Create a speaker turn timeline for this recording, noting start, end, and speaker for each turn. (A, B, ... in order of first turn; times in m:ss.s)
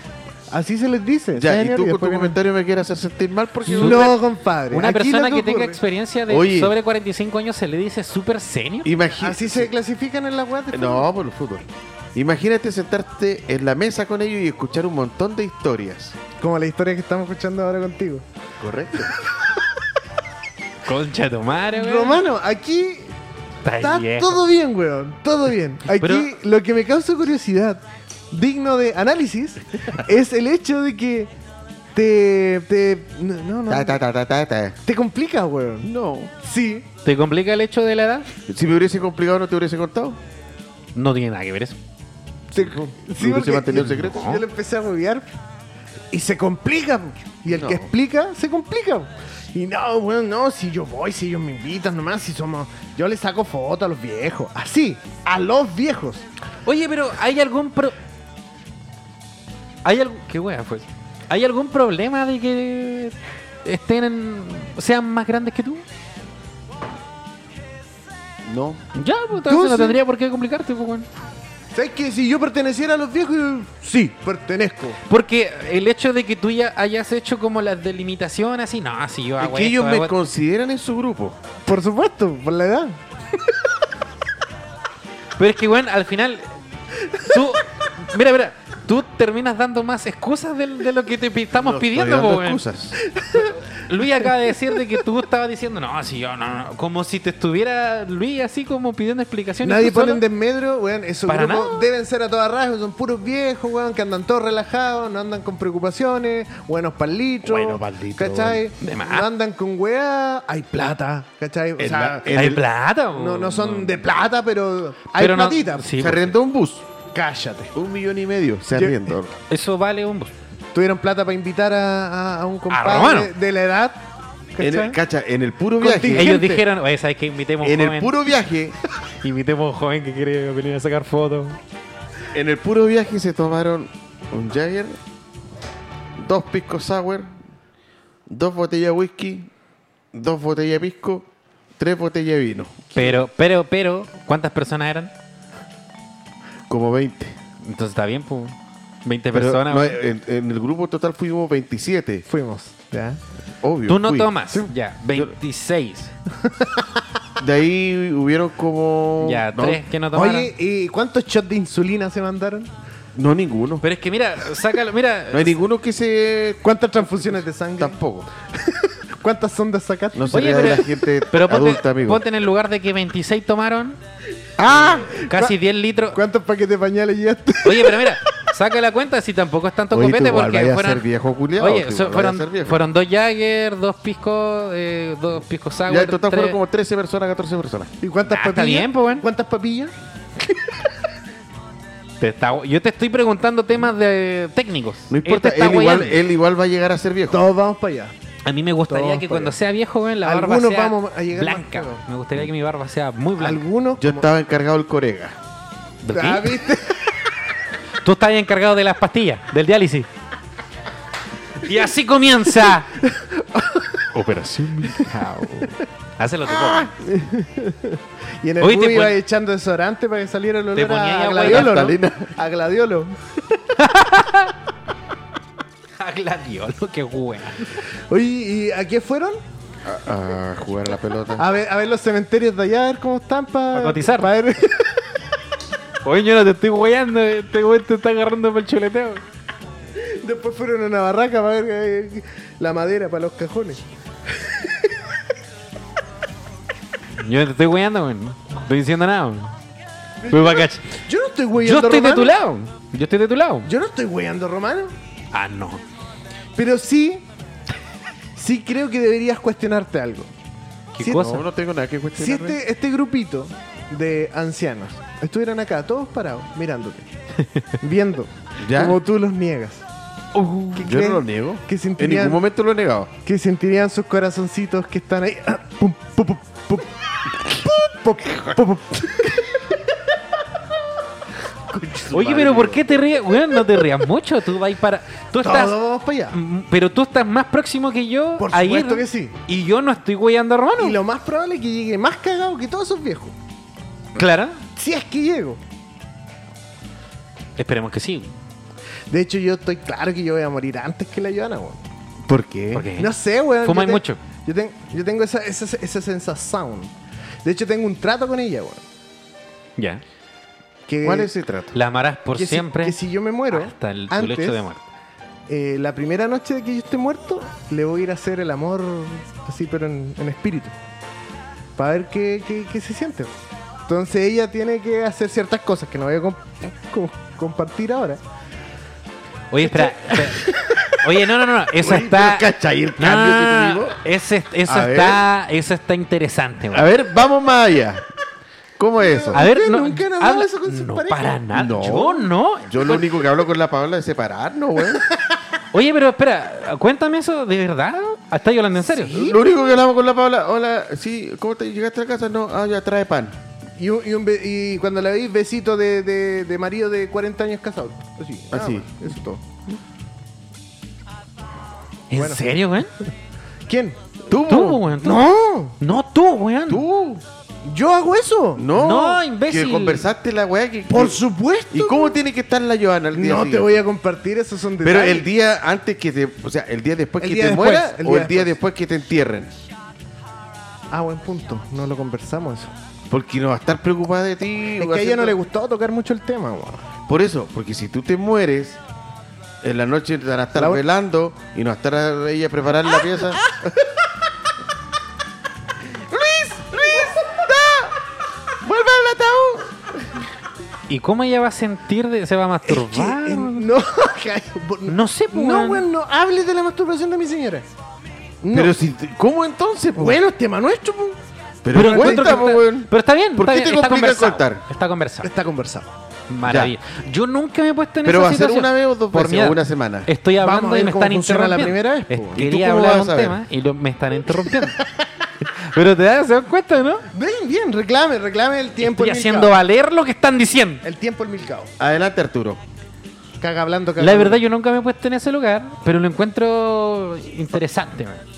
0:00.5-0:02.4 A
0:01.3-0:04.2 B
0:03.7-0:04.1 C
0:03.7-0:05.8 A
0:04.7-0:08.9 C
0:06.3-0:06.8 B
0:08.8-0:09.7 B
0:09.2-0:11.1 A
0:10.7-0:16.2 B
0:16.4-0:18.2 A
0:18.6-0:19.2 B
0:20.8-0:22.2 C
0:21.7-0:23.2 A
0:23.6-0:24.4 C
0:23.8-0:31.3 A
0:25.9-0:26.3 C
0:31.9-0:34.0 A
0:33.7-0:34.8 B
0:34.8-0:35.9 A
0:35.8-0:36.3 B
0:36.4-0:36.9 A
0:37.0-0:38.3 C
0:38.5-0:40.2 B
0:41.0-0:41.8 C
0:42.5-0:45.3 A
0:42.5-0:44.3 B
0:43.8-0:44.4 C
0:46.1-0:56.2 A
0:47.5-0:47.9 B
0:56.7-0:58.0 C
0:59.8-1:05.8 C
1:08.4-1:08.8 B
1:08.9-1:11.1 C
1:09.4-1:10.0 A
1:11.7-1:15.0 A
1:15.1-1:20.1 C
1:19.4-1:21.4 B
1:21.6-1:23.0 A
1:25.4-1:26.5 C
1:27.1-1:32.6 C
1:31.6-1:33.0 B
1:33.1-1:33.6 A
1:33.4-1:40.2 C
1:39.6-1:52.4 A
1:41.3-1:41.9 C
1:47.4-1:48.6 B
1:48.8-1:49.3 C
1:51.8-1:52.6 B
1:52.3-1:54.0 C
1:53.1-1:55.9 A
1:55.2-1:56.3 C
1:56.0-1:56.9 B
1:57.1-1:57.7 A
1:57.8-1:59.4 B
1:58.7-1:59.0 A
1:59.5-2:00.3 C
2:00.7-2:04.0 A
2:02.7-2:03.3 C
2:04.5-2:05.0 A
2:04.6-2:06.6 B
2:05.8-2:06.6 A
2:06.1-2:08.1 C
2:07.6-2:08.8 B
2:09.2-2:11.6 C
2:12.3-2:15.0 B
2:16.2-2:17.3 B
2:18.3-2:19.5 B
2:20.1-2:21.3 B
2:21.8-2:23.1 B
2:23.0-2:25.1 C
2:26.7-2:27.4 B
2:27.6-2:30.0 C
2:29.3-2:32.3 B
2:32.3-2:33.2 A
2:33.6-2:34.3 B
2:33.9-2:36.1 C
2:36.4-2:37.0 A
2:37.4-2:39.8 B
2:39.2-2:40.5 C
2:40.1-2:42.7 A
2:43.2-2:43.8 B
2:43.8-2:45.6 C
2:45.3-2:46.7 B
2:46.6-2:48.0 A
2:47.8-2:48.3 B
2:48.5-2:50.8 A
2:50.1-2:52.2 B
2:50.3-2:54.0 C
2:54.6-2:55.1 B
2:54.7-2:55.6 A
2:54.7-2:56.2 C
2:56.1-2:58.2 A
2:57.6-3:01.0 C
2:59.9-3:02.8 B
3:01.6-3:06.6 C
3:05.9-3:07.9 B
3:08.0-3:10.9 A
3:08.3-3:09.3 C
3:12.2-3:16.2 C
3:15.1-3:17.4 B
3:17.3-3:18.1 A
3:18.4-3:23.6 C
3:18.9-3:19.6 A
3:20.2-3:22.0 A
3:23.4-3:24.3 A
3:24.0-3:25.4 B
3:26.0-3:26.6 C
3:26.1-3:27.4 A
3:28.0-3:30.1 C
3:31.6-3:32.9 C
3:33.0-3:34.1 A
3:34.1-3:36.9 C
3:36.8-3:43.2 A
3:38.6-3:39.2 C
3:40.7-3:41.8 C
3:41.4-3:42.3 B
3:43.8-3:44.5 C
3:46.0-3:47.8 C
3:48.1-3:49.4 A
3:49.8-3:51.5 B
3:51.4-3:55.2 A
3:53.7-3:54.3 C
3:56.0-3:59.2 C
4:00.0-4:05.2 A
4:07.2-4:09.6 C
4:10.2-4:12.4 A
4:10.3-4:11.0 C
4:11.6-4:13.7 C
4:13.6-4:14.9 A
4:15.3-4:15.8 C
4:16.6-4:17.3 A
4:18.4-4:20.3 A
4:20.9-4:21.4 C
4:21.0-4:22.6 B
4:22.2-4:27.1 A
4:27.8-4:29.8 A
4:28.6-4:29.0 B
4:30.4-4:30.7 C
4:30.7-4:32.4 A
4:30.8-4:33.1 B
4:33.2-4:40.0 A
4:41.7-4:43.0 B
4:42.1-4:45.8 C
4:45.4-4:46.4 A
4:46.3-4:51.0 C
4:48.4-4:49.4 A
4:50.8-4:53.4 A
4:54.2-4:54.6 C
4:54.8-4:55.6 A
4:57.6-4:58.3 C
4:59.1-5:01.8 A
5:02.3-5:02.9 B
5:02.7-5:04.2 C
5:03.0-5:06.9 A
5:07.4-5:08.8 A
5:09.8-5:10.0 C
5:10.9-5:11.3 A
5:11.0-5:11.8 B
5:11.7-5:13.0 C
5:12.4-5:14.7 A
5:13.5-5:14.8 C
5:15.5-5:20.8 A
5:21.8-5:23.4 A
5:23.9-5:28.2 A
5:29.5-5:36.9 C
5:29.6-5:30.9 A
5:31.8-5:34.0 B
5:34.7-5:35.2 B
5:36.7-5:38.1 B
5:38.8-5:39.4 B
5:39.0-5:41.4 A
5:39.4-5:43.1 C
5:41.5-5:45.1 B
5:45.1-5:45.4 A
5:45.7-5:49.2 C
5:48.9-5:49.4 A
5:49.1-5:53.4 B
5:53.8-5:59.4 A
5:58.5-5:59.1 B
6:02.1-6:02.9 C
6:02.1-6:02.4 A
6:03.7-6:04.0 A
6:04.3-6:04.8 B
6:04.5-6:06.8 C
6:05.0-6:05.8 A
6:06.7-6:07.2 B
6:07.6-6:08.7 A
6:08.6-6:11.2 B
6:08.7-6:10.1 C
6:10.9-6:12.2 A
6:11.7-6:13.8 B
6:13.1-6:15.3 A
6:14.8-6:19.5 B
6:17.2-6:18.6 A
6:20.9-6:22.7 A
6:23.1-6:25.4 B
6:24.8-6:26.9 A
6:27.1-6:28.8 B
6:29.6-6:33.6 B
6:30.6-6:30.8 A
6:33.5-6:34.1 A
6:35.9-6:38.0 A
6:38.6-6:39.4 A
6:38.7-6:39.6 B
6:40.9-6:43.7 C
6:42.6-6:47.7 A
6:44.9-6:45.8 C
6:48.4-6:48.8 A
6:48.5-6:50.2 B
6:50.0-6:51.2 A
6:51.6-6:54.6 B
6:51.7-6:52.6 A
6:51.7-6:55.3 C
6:55.2-6:55.9 A
6:56.3-7:04.8 C
6:56.4-6:56.7 B
6:58.0-7:00.1 B
7:00.4-7:02.4 A
7:02.4-7:03.4 B
7:04.4-7:05.0 A
7:05.6-7:07.1 C
7:07.1-7:09.6 A
7:08.8-7:10.8 C
7:10.8-7:11.7 A
7:11.8-7:12.6 B
7:13.4-7:14.4 A
7:14.0-7:18.2 C